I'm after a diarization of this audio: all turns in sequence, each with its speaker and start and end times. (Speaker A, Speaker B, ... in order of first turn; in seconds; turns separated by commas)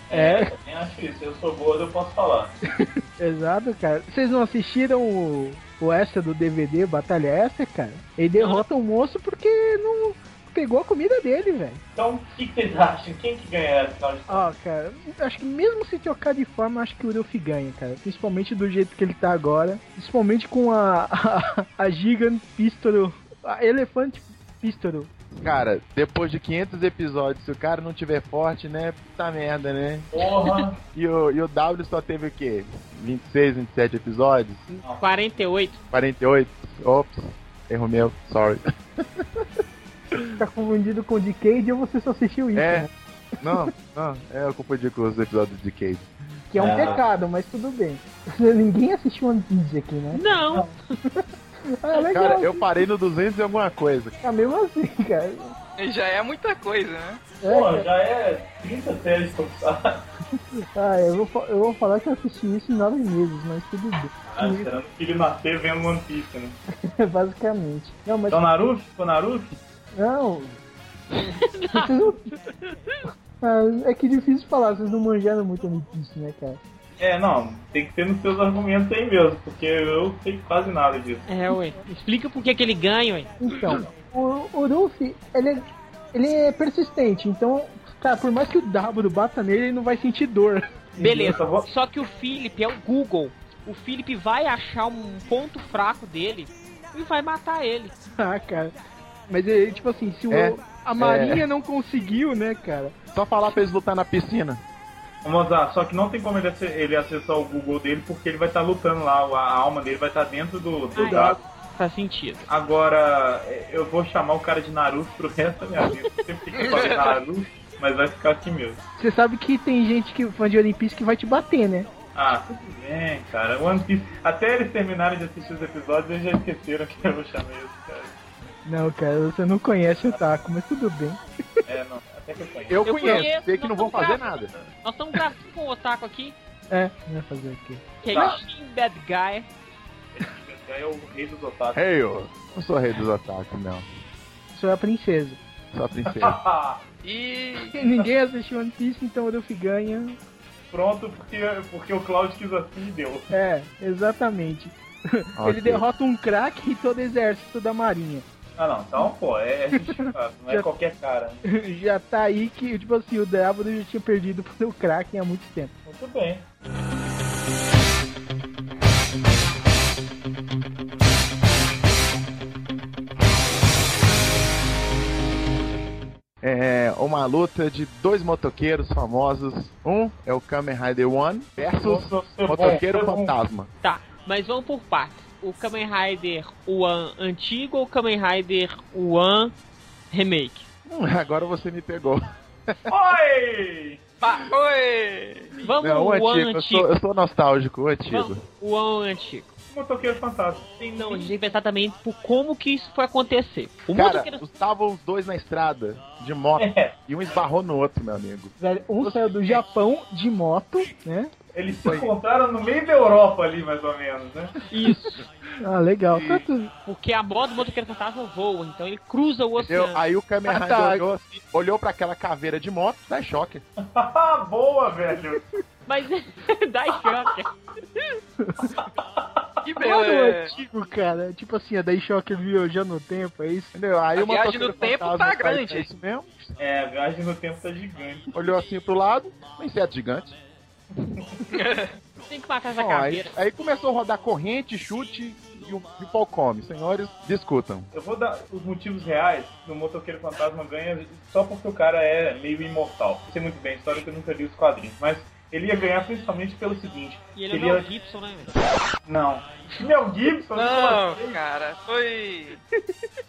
Speaker A: 0.1-2.5, Speaker B: 0.1-0.5, Speaker B: 2.8-11.8, Speaker C: 8.4-8.6, Speaker A: 11.9-14.5, Speaker B: 14.3-25.1, Speaker D: 25.4-30.1, Speaker A: 30.1-30.8, Speaker D: 30.9-34.6, Speaker E: 34.7-35.8, Speaker D: 35.9-39.4, Speaker B: 40.4-42.9, Speaker D: 42.5-42.9, Speaker D: 43.4-46.1, Speaker B: 46.5-52.7, Speaker A: 46.6-47.0, Speaker E: 50.1-50.8, Speaker D: 52.0-54.1, Speaker B: 54.2-55.5, Speaker C: 55.8-57.2, Speaker B: 57.4-57.9, Speaker A: 57.4-60.0, Speaker B: 60.7-64.7, Speaker A: 64.3-66.6, Speaker B: 66.9-68.4, Speaker A: 68.3-69.6, Speaker B: 70.0-70.6, Speaker E: 71.2-72.7, Speaker B: 71.7-72.3, Speaker B: 73.4-76.6, Speaker A: 77.0-81.2, Speaker E: 81.3-83.3, Speaker B: 83.4-90.7, Speaker A: 90.9-91.7, Speaker E: 91.0-97.9, Speaker B: 98.2-98.7, Speaker B: 99.3-102.9, Speaker D: 100.3-101.4, Speaker D: 103.1-104.6, Speaker A: 105.2-111.4, Speaker E: 111.0-112.5, Speaker B: 111.0-111.3, Speaker A: 112.5-118.8, Speaker C: 116.5-117.1, Speaker B: 119.0-121.9, Speaker A: 122.1-128.2, Speaker B: 128.7-131.2, Speaker A: 131.7-133.2, Speaker D: 132.7-134.5, Speaker E: 132.8-136.3, Speaker B: 136.7-138.3, Speaker E: 138.0-139.5, Speaker A: 140.1-141.8, Speaker D: 141.7-143.8, Speaker B: 144.5-145.4, Speaker D: 145.7-146.4, Speaker A: 146.1-146.8, Speaker C: 147.0-147.9, Speaker B: 147.7-150.2, Speaker A: 150.7-153.3, Speaker B: 153.3-158.2, Speaker D: 155.4-155.8, Speaker A: 158.6-161.4, Speaker B: 159.8-160.7, Speaker B: 161.4-165.7, Speaker A: 165.8-166.4, Speaker D: 176.4-183.7, Speaker A: 181.6-183.3, Speaker E: 183.8-189.5, Speaker E: 190.1-190.7, Speaker D: 190.8-192.8, Speaker A: 192.9-194.0, Speaker C: 194.2-195.5, Speaker E: 195.6-196.9, Speaker D: 195.8-198.4, Speaker E: 198.1-199.5, Speaker A: 199.7-201.3, Speaker E: 200.9-204.4, Speaker D: 203.9-208.5, Speaker A: 206.6-206.9, Speaker B: 208.6-211.3, Speaker A: 211.5-214.5, Speaker D: 211.8-212.1, Speaker E: 214.7-215.2, Speaker B: 215.6-216.7, Speaker D: 216.1-216.4, Speaker E: 216.8-220.0, Speaker D: 219.6-223.6, Speaker B: 220.5-221.0, Speaker A: 223.8-225.4, Speaker E: 225.8-227.5, Speaker B: 228.4-228.7, Speaker C: 229.6-230.5, Speaker B: 229.8-233.7, Speaker D: 233.7-236.5, Speaker C: 234.1-235.9, Speaker A: 236.6-238.3, Speaker D: 238.3-240.4, Speaker C: 241.5-241.9, Speaker E: 242.3-243.3, Speaker D: 242.7-247.9, Speaker A: 247.9-257.9, Speaker E: 257.3-258.5, Speaker A: 259.1-261.4, Speaker C: 260.5-262.6